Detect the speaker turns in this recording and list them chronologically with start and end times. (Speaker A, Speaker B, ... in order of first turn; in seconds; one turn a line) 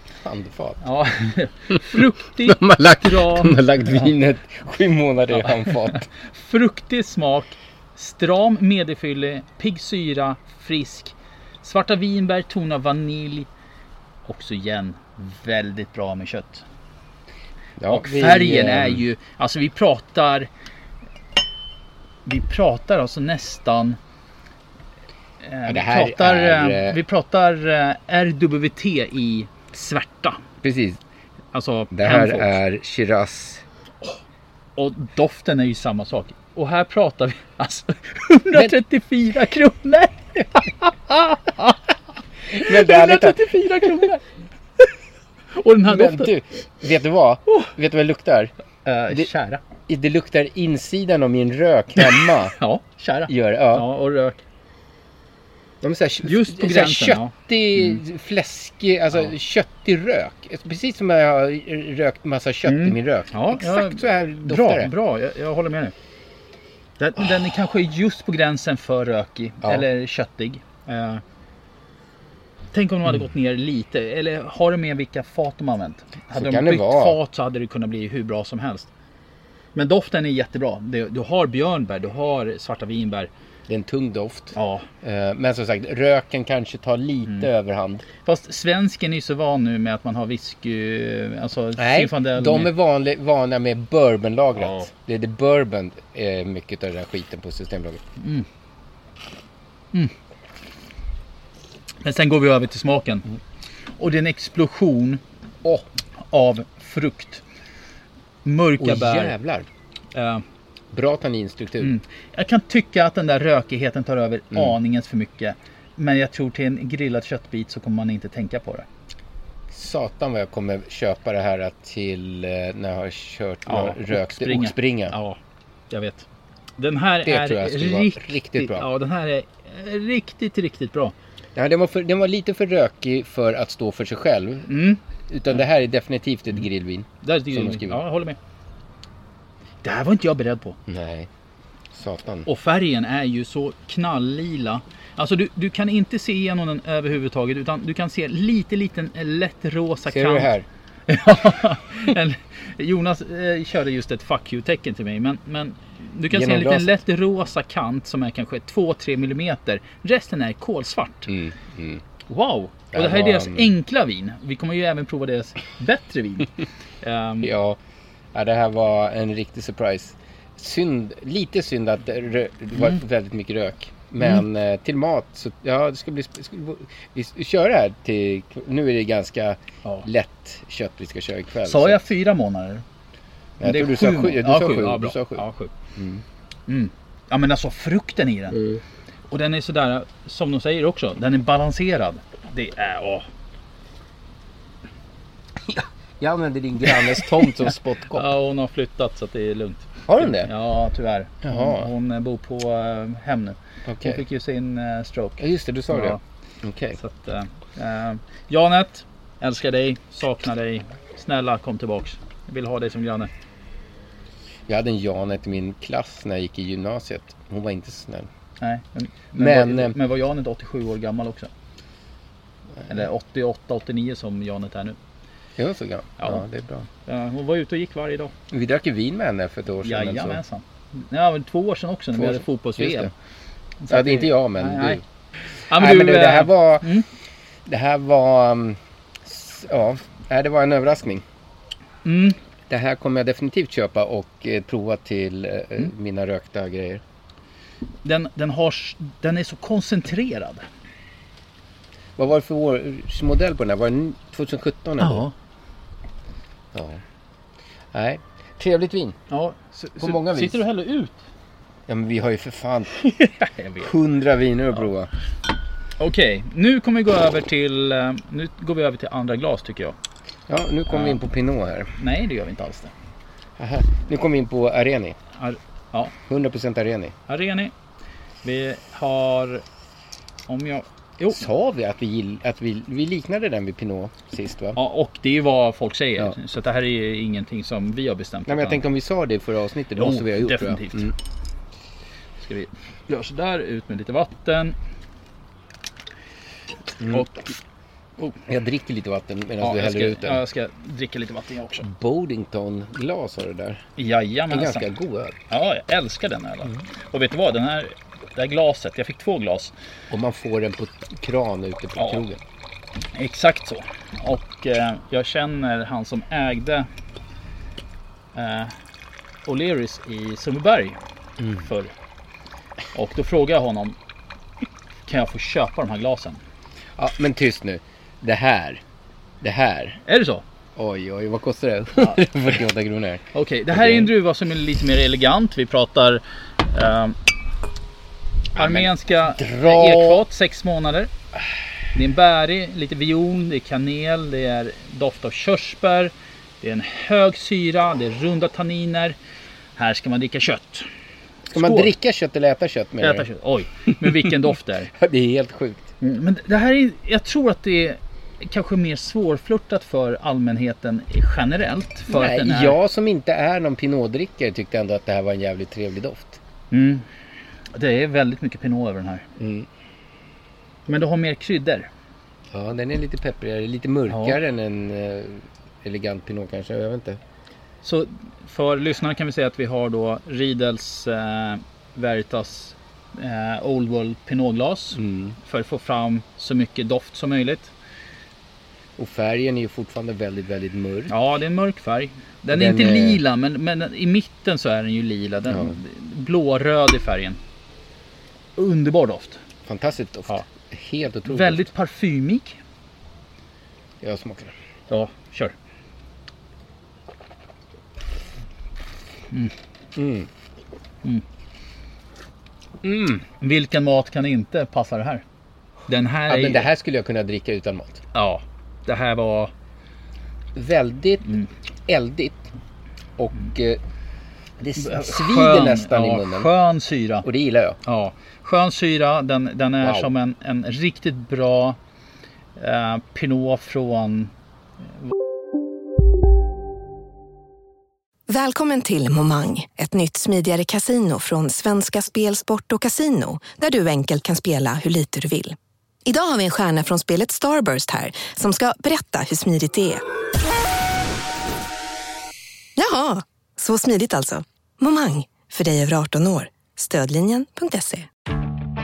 Speaker A: 0.2-0.8
Speaker B: 0.8-4.1
Speaker A: 1.9-6.1
Speaker B: 5.3-13.5
Speaker B: 14.2-16.6
Speaker A: 17.8-19.0
Speaker B: 17.9-20.5
Speaker B: 22.2-24.0
Speaker B: 25.4-30.4
Speaker A: 25.6-27.0
Speaker A: 30.6-31.0
Speaker B: 31.5-32.6
Speaker A: 31.9-33.6
Speaker B: 34.8-41.8
Speaker B: 42.5-44.2
Speaker A: 42.5-44.0
Speaker B: 45.5-46.3
Speaker A: 45.8-48.5
Speaker B: 48.8-49.6
Speaker A: 49.9-52.5
Speaker B: 52.0-54.4
Speaker A: 53.3-53.9
Speaker A: 55.8-64.9
Speaker B: 56.2-58.0
Speaker B: 62.6-65.9
Speaker B: 67.0-71.2
Speaker B: 72.7-78.9
Speaker A: 76.3-77.2
Speaker B: 79.7-83.3
Speaker A: 83.7-88.0
Speaker B: 84.5-84.9
Speaker B: 88.2-92.7
Speaker A: 91.8-98.0
Speaker B: 98.2-98.5
Speaker B: 102.0-103.3
Speaker B: 104.0-105.2
Speaker B: 106.3-107.4
Speaker B: 108.4-109.3
Speaker A: 108.8-109.7
Speaker B: 110.1-110.4
Speaker A: 110.9-111.9
Speaker B: 111.8-118.8
Speaker A: 119.7-125.2
Speaker B: 123.7-125.4
Speaker B: 125.9-126.2
Speaker B: 126.8-131.1
Speaker A: 127.2-128.9
Speaker A: 131.5-134.7
Speaker B: 134.7-135.0
Speaker A: 135.3-138.0
Speaker B: 137.2-138.4
Speaker B: 139.8-140.8
Speaker A: 140.9-141.3
Speaker A: 141.9-142.5
Speaker B: 142.4-150.5
Speaker A: 150.1-150.7
Speaker B: 151.1-161.3
Speaker A: 156.3-157.0
Speaker A: 161.3-162.0
Speaker B: 162.3-167.5
Speaker A: 162.9-163.7
Speaker A: 167.4-167.8
Speaker A: 168.3-182.1
Speaker B: 181.6-182.8
Speaker A: 183.6-186.2
Speaker B: 183.6-185.7
Speaker B: 186.7-188.6
Speaker A: 188.5-188.8
Speaker B: 189.3-193.2
Speaker A: 195.7-198.3
Speaker B: 198.1-206.2
Speaker A: 200.1-200.5
Speaker A: 201.4-201.9
Speaker A: 203.8-204.2
Speaker A: 205.4-207.0
Speaker B: 206.9-213.3
Speaker A: 214.7-218.3
Speaker B: 218.6-221.5
Speaker A: 219.3-219.9
Speaker B: 222.9-225.0
Speaker A: 225.6-226.9
Speaker B: 227.0-228.3
Speaker A: 228.5-230.4
Speaker B: 229.8-233.1
Speaker A: 232.1-233.1
Speaker B: 233.8-235.0
Speaker A: 233.9-235.0
Speaker B: 235.7-237.1
Speaker A: 235.7-236.9
Speaker A: 237.7-241.2
Speaker B: 242.0-242.4
Speaker A: 242.7-247.0
Speaker B: 248.0-250.7
Speaker A: 252.2-255.3
Speaker B: 255.0-255.3
Speaker A: 256.7-257.0
Speaker A: 257.9-259.2
Speaker B: 259.3-261.2
Speaker A: 260.0-260.6
Speaker A: 261.9-263.0
Speaker B: 263.1-263.9
Speaker A: 263.8-265.1
Speaker B: 266.0-269.9
Speaker A: 270.5-271.9
Speaker B: 270.9-271.2
Speaker B: 272.0-272.9
Speaker A: 273.6-275.2
Speaker B: 275.4-276.1
Speaker A: 276.3-277.1
Speaker B: 277.3-277.7
Speaker B: 278.4-279.6
Speaker B: 280.5-281.4
Speaker A: 281.3-284.8
Speaker B: 284.7-288.8
Speaker A: 288.4-291.1
Speaker B: 289.9-291.1
Speaker B: 292.4-294.8
Speaker A: 297.0-297.3
Speaker B: 297.0-297.5
Speaker A: 298.5-300.4
Speaker B: 299.6-301.9
Speaker A: 301.8-303.8
Speaker B: 304.0-304.9
Speaker A: 304.5-305.4
Speaker B: 305.5-309.7
Speaker A: 310.1-312.4
Speaker B: 312.0-312.2
Speaker B: 313.1-316.9
Speaker B: 318.3-318.7
Speaker B: 319.4-321.0
Speaker B: 321.6-321.9
Speaker B: 322.9-323.9
Speaker B: 325.1-326.4
Speaker A: 327.0-328.8
Speaker A: 329.4-330.0
Speaker B: 330.1-330.4
Speaker A: 330.8-334.1
Speaker B: 332.0-332.2
Speaker B: 333.3-337.1
Speaker A: 338.6-340.2
Speaker B: 338.6-341.1
Speaker B: 341.9-349.2
Speaker B: 349.8-350.9
Speaker A: 351.5-353.3
Speaker B: 351.5-351.9
Speaker B: 353.0-354.9
Speaker A: 354.0-354.3
Speaker A: 354.9-355.9
Speaker B: 356.0-362.8
Speaker A: 362.1-366.4
Speaker B: 366.7-367.1
Speaker B: 367.7-369.2
Speaker A: 369.4-369.7
Speaker B: 370.9-371.9
Speaker A: 372.5-377.2
Speaker B: 374.1-374.4
Speaker B: 377.8-387.7
Speaker A: 384.9-385.4
Speaker A: 389.0-391.1
Speaker B: 391.1-397.4
Speaker A: 392.5-393.2
Speaker A: 395.5-395.8
Speaker B: 398.6-399.4
Speaker A: 399.6-401.7
Speaker B: 401.2-402.6
Speaker A: 404.0-404.5
Speaker B: 404.9-405.5
Speaker A: 409.9-410.3
Speaker A: 412.8-413.2
Speaker B: 413.4-415.2
Speaker B: 415.9-416.7
Speaker A: 416.3-418.0
Speaker B: 418.1-419.5
Speaker A: 420.5-422.5
Speaker A: 423.2-423.8
Speaker A: 424.6-426.5
Speaker B: 424.8-427.2
Speaker A: 427.2-427.8
Speaker B: 427.8-431.8
Speaker A: 429.8-430.1
Speaker B: 432.6-434.3
Speaker C: 438.3-450.0
Speaker C: 452.8-458.1